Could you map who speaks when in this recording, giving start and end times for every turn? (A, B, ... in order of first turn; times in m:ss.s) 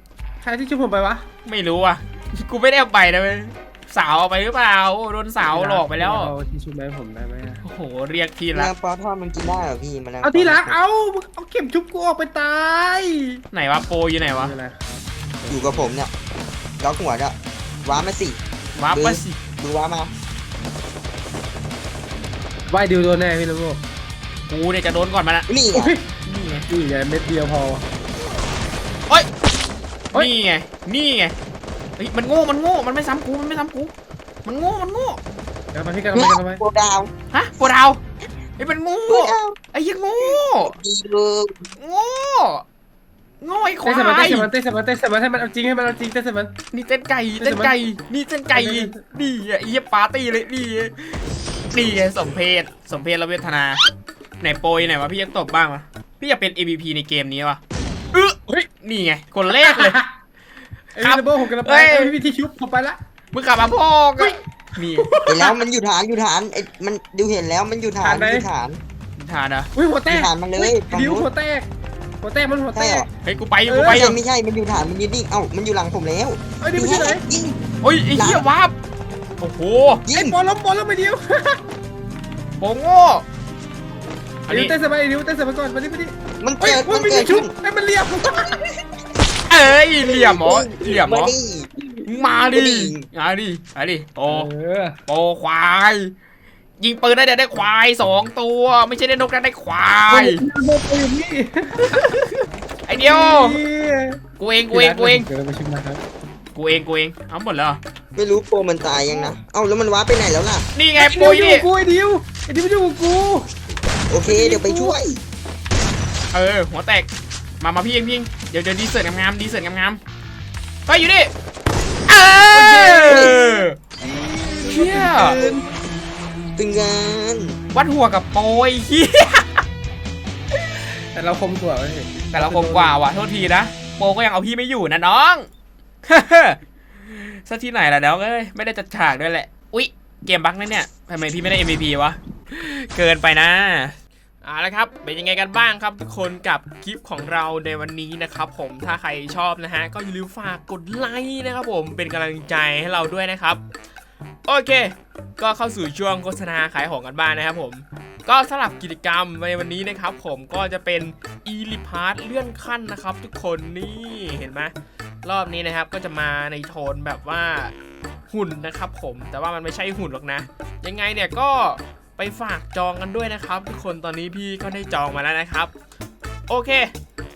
0:00.4-0:01.2 A
0:01.4-0:06.3 B
0:05.5-0:07.6 A
0:07.6-0:08.7 B
0:08.5-0:10.8 C
0:10.2-0:13.4 A
0:13.5-0:14.5 B
0:14.2-0:14.8 A
0:15.4-0:15.9 A
0:15.5-0:16.1 C
0:16.8-0:18.4 C
0:18.8-0:19.4 B
0:18.9-0:20.1 C
0:22.7-0:23.8 A
0:24.5-0:25.5 B
0:25.5-0:25.9 C
0:25.7-0:26.0 A
0:26.2-0:26.6 B
0:26.7-0:27.8 A
0:30.1-0:31.4 B
0:32.0-0:33.9 B
0:34.4-0:35.2 B
0:35.7-0:36.6 A
0:36.1-0:37.1 C
0:37.3-0:38.0 B
0:38.6-0:40.8 B
0:39.1-0:39.6 C
0:40.3-0:41.6 C
0:41.8-0:42.6 B
0:43.4-0:44.5 B
0:43.8-0:46.5 A
0:46.7-0:51.2 B
0:47.4-0:47.7 A
0:48.5-0:48.9 A
0:51.7-0:53.8 B
0:54.4-0:57.6 B
0:58.1-1:00.0 B
0:59.5-1:00.1 A
1:01.0-1:03.0 A
1:01.0-1:02.1 B
1:03.3-1:05.1 B
1:04.9-1:05.6 A
1:05.2-1:08.8 C
1:08.0-1:08.5 A
1:09.2-1:09.7 B
1:09.7-1:11.7 A
1:10.1-1:11.3 C
1:12.2-1:13.1 A
1:12.7-1:13.1 C
1:13.2-1:14.2 B
1:13.7-1:14.1 A
1:13.9-1:17.6 C
1:16.6-1:17.2 A
1:17.8-1:18.7 B
1:18.1-1:18.4 C
1:19.4-1:20.0 B
1:20.0-1:20.4 C
1:20.1-1:21.6 A
1:22.6-1:23.2 B
1:24.5-1:24.7 B
1:24.5-1:28.7 A
1:26.4-1:27.5 C
1:29.5-1:31.3 B
1:30.0-1:31.8 C
1:32.0-1:34.5 B
1:32.5-1:33.1 C
1:34.3-1:35.0 A
1:35.1-1:36.1 B
1:36.8-1:40.4 B
1:40.1-1:42.2 A
1:41.9-1:42.3 B
1:42.8-1:43.6 B
1:43.0-1:46.0 A
1:44.4-1:45.3 B
1:46.5-1:47.8 B
1:48.1-1:50.7 C
1:49.0-1:49.4 A
1:50.7-1:51.7 B
1:50.9-1:53.5 A
1:54.1-1:55.2 C
1:54.2-1:55.0 A
1:56.3-1:57.1 B
1:57.6-2:00.0 B
2:00.9-2:01.3 B
2:02.1-2:03.8 B
2:02.5-2:05.6 A
2:03.1-2:03.3 C
2:04.6-2:05.4 B
2:06.6-2:07.6 C
2:07.7-2:09.6 B
2:11.1-2:12.9 A
2:12.3-2:15.5 B
2:16.0-2:33.6 B
2:34.4-2:44.7 B
2:45.2-2:47.7 B
2:48.3-2:55.7 B
2:56.5-2:56.9 B